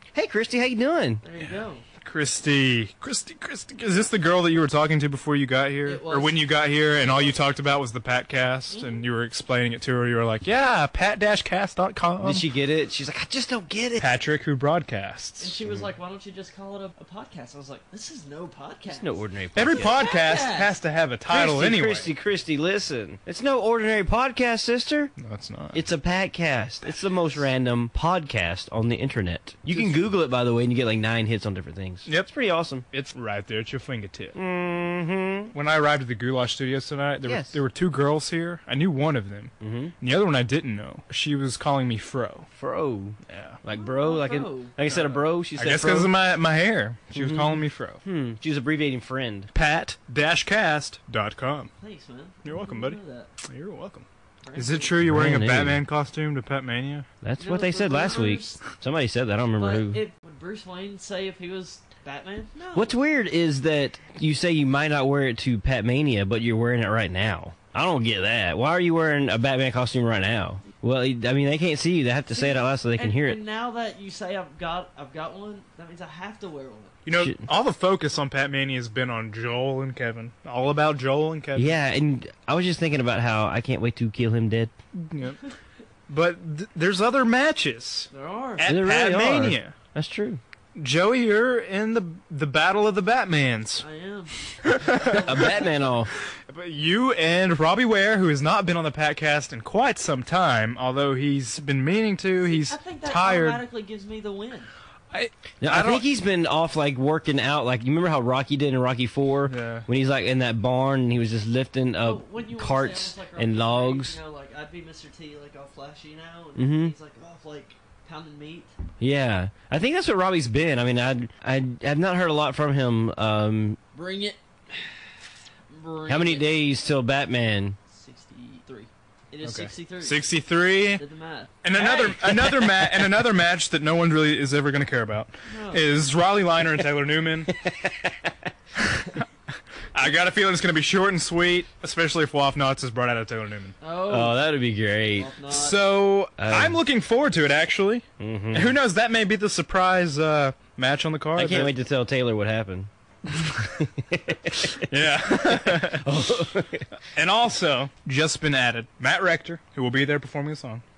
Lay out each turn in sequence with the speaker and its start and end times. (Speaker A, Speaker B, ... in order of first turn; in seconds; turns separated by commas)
Speaker A: 0.1-1.2, Speaker B: 1.2-1.8, Speaker C: 2.0-12.4, Speaker B: 5.8-6.4, Speaker B: 8.7-9.0, Speaker A: 12.2-14.1, Speaker C: 14.0-15.6, Speaker B: 15.4-20.7, Speaker A: 18.9-20.1, Speaker C: 19.5-22.1, Speaker A: 21.3-25.1, Speaker C: 25.2-25.8, Speaker A: 25.7-32.8, Speaker C: 29.7-30.1, Speaker C: 32.9-34.4, Speaker A: 34.3-35.5, Speaker C: 35.5-42.5, Speaker A: 37.2-37.6, Speaker A: 39.6-39.9, Speaker A: 42.5-46.1, Speaker C: 43.3-43.6, Speaker B: 43.7-45.2, Speaker C: 45.6-48.0, Speaker A: 47.1-49.5, Speaker C: 49.5-51.7, Speaker B: 51.8-53.3, Speaker C: 52.4-57.1, Speaker B: 54.4-55.0, Speaker A: 55.0-55.8, Speaker A: 57.2-60.0, Speaker B: 57.4-58.6, Speaker B: 59.6-62.9, Speaker A: 62.8-73.4, Speaker B: 72.3-76.9, Speaker C: 77.0-81.8, Speaker A: 77.1-77.4, Speaker A: 81.5-84.7, Speaker C: 84.9-85.5, Speaker C: 86.1-89.8, Speaker B: 88.1-88.7, Speaker A: 88.6-90.4, Speaker C: 90.8-93.8, Speaker B: 93.8-95.9, Speaker C: 94.6-95.3, Speaker A: 95.0-96.1, Speaker C: 96.5-103.6, Speaker B: 102.4-104.7, Speaker C: 105.1-106.0, Speaker A: 105.6-114.2, Speaker C: 109.5-109.8, Speaker B: 112.0-118.8, Speaker A: 116.5-116.9, Speaker A: 119.0-123.8, Speaker B: 123.9-125.0, Speaker B: 125.7-126.6, Speaker A: 126.1-127.8, Speaker B: 127.9-130.3, Speaker C: 129.4-131.0, Speaker B: 130.9-131.6, Speaker C: 131.6-137.5, Speaker A: 131.8-133.0, Speaker B: 135.4-135.8, Speaker A: 137.5-138.5, Speaker C: 139.9-143.8, Speaker B: 143.8-144.4, Speaker A: 144.1-145.3, Speaker B: 145.1-145.8, Speaker C: 145.5-151.7, Speaker A: 146.4-146.8, Speaker A: 148.2-148.8, Speaker A: 151.3-156.8, Speaker C: 154.8-156.1, Speaker C: 157.1-160.8